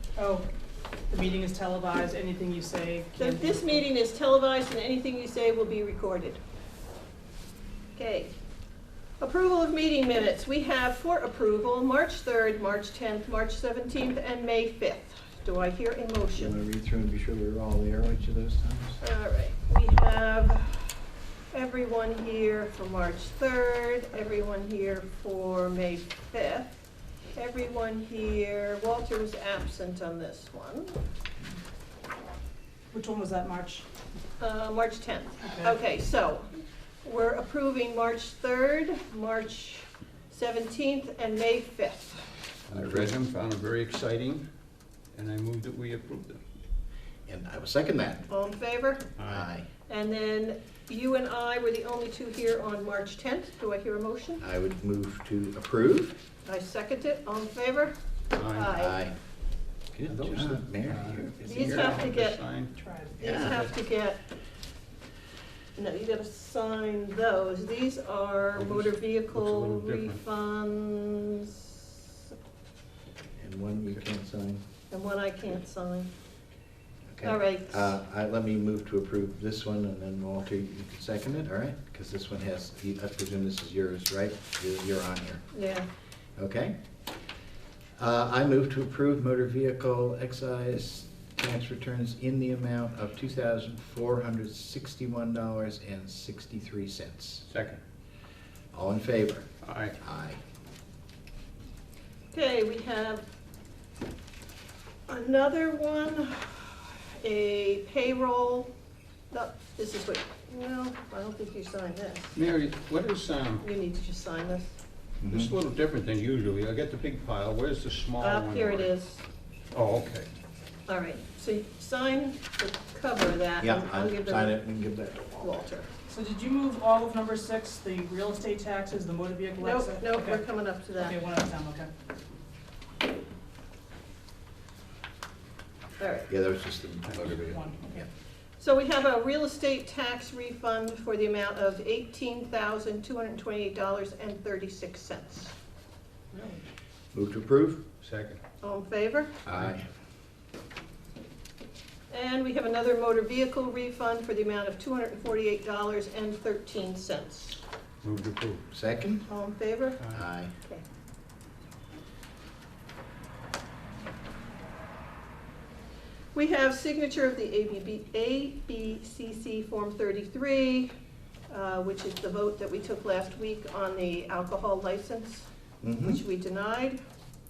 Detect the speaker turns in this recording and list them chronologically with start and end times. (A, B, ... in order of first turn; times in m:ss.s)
0:00.2-0:00.5 A
0:01.1-0:03.9 A
0:03.2-0:06.4 B
0:08.0-0:08.3 B
0:09.2-0:16.6 B
0:16.4-0:19.0 C
0:19.0-0:21.0 B
0:21.5-0:26.8 B
0:27.3-0:31.0 B
0:32.9-0:33.9 A
0:34.4-0:36.5 B
0:35.4-0:35.8 A
0:37.0-0:42.3 B
0:42.7-0:44.4 D
0:42.7-0:43.1 C
0:45.1-0:46.4 D
0:47.3-0:48.3 C
0:48.3-0:49.1 B
0:49.2-0:49.5 D
0:49.3-0:49.7 C
0:49.9-0:54.4 B
0:54.4-0:56.2 C
0:56.4-0:57.9 B
0:58.3-0:58.8 D
0:58.4-0:59.0 B
0:58.7-0:59.2 C
0:59.9-1:01.9 C
1:00.1-1:02.7 D
1:01.4-1:02.4 B
1:02.8-1:03.2 A
1:03.2-1:04.2 B
1:03.2-1:03.7 C
1:05.8-1:12.2 B
1:08.6-1:10.2 D
1:13.4-1:14.6 C
1:14.9-1:16.1 B
1:17.1-1:25.4 C
1:17.2-1:17.9 B
1:25.5-1:25.9 B
1:26.4-1:26.7 C
1:28.0-1:37.5 C
1:37.5-1:37.8 D
1:38.7-1:39.5 C
1:39.6-1:40.0 D
1:40.0-1:40.4 C
1:42.3-1:43.2 B
1:45.1-1:48.7 B
1:49.3-1:52.4 B
1:52.3-1:53.6 D
1:53.6-1:54.8 B
1:55.2-1:55.5 C
1:55.3-1:58.9 D
1:58.2-1:59.2 B
1:59.7-2:00.3 D
2:00.9-2:04.6 B
2:03.6-2:05.6 C
2:05.4-2:05.9 B
2:06.1-2:10.4 A
2:09.6-2:11.2 B
2:11.0-2:11.9 A
2:16.0-2:16.3 B
2:16.3-2:17.6 C
2:17.3-2:18.0 A
2:18.6-2:25.5 B
2:26.3-2:26.7 A
2:27.1-2:27.8 C
2:28.0-2:28.4 D
2:28.6-2:29.4 B
2:29.5-2:29.9 C
2:32.1-2:37.6 B
2:38.0-2:38.6 D
2:38.7-2:39.3 C
2:39.3-2:40.0 B
2:40.1-2:40.5 C
2:46.4-2:50.9 B
2:51.5-2:55.5 B
2:55.8-2:56.2 C
2:56.0-2:57.0 B